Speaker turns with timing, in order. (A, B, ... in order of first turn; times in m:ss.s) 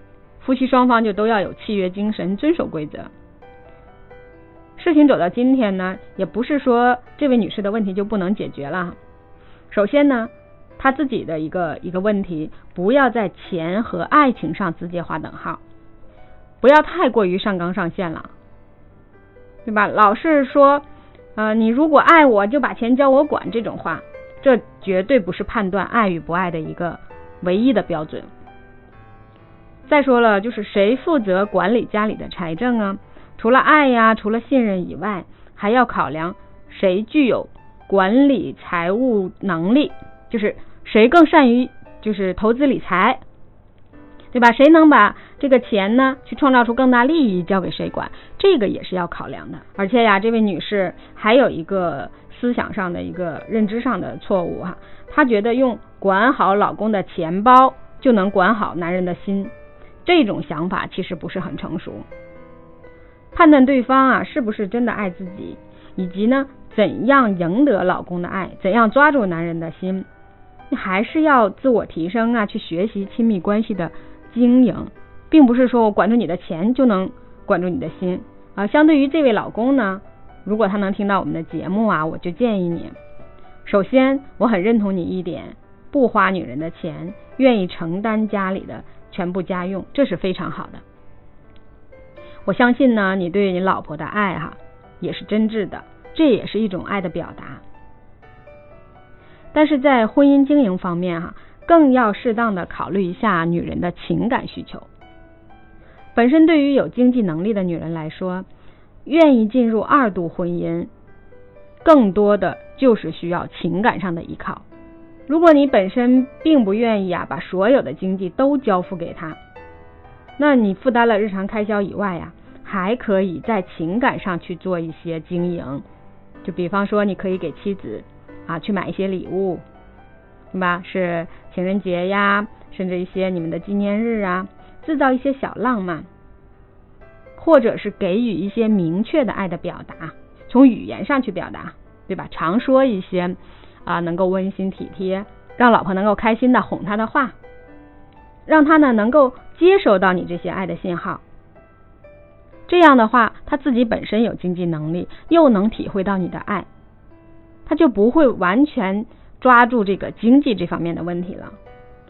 0:00.4-0:03.1 A
0:04.8-0:09.0 A
0:09.7-0:15.6 A
0:16.6-0:18.3 A
0:19.6-0:20.8 A
0:21.4-0:28.3 A
0:29.9-0:43.2 A
0:44.3-0:59.5 A
1:00.0-1:02.1 A
1:03.3-1:10.1 A
1:10.7-1:23.0 A
1:23.6-1:30.8 A
1:32.4-1:37.6 A
1:39.5-1:44.9 A
1:46.1-1:48.5 A
1:49.0-1:50.9 A
1:51.8-1:54.6 A
1:55.3-1:59.4 A
2:00.4-2:05.8 A
2:06.4-2:09.6 A
2:10.5-2:16.1 A
2:17.4-2:27.4 A
2:28.5-2:31.2 A
2:32.7-2:36.7 A
2:37.6-2:41.6 A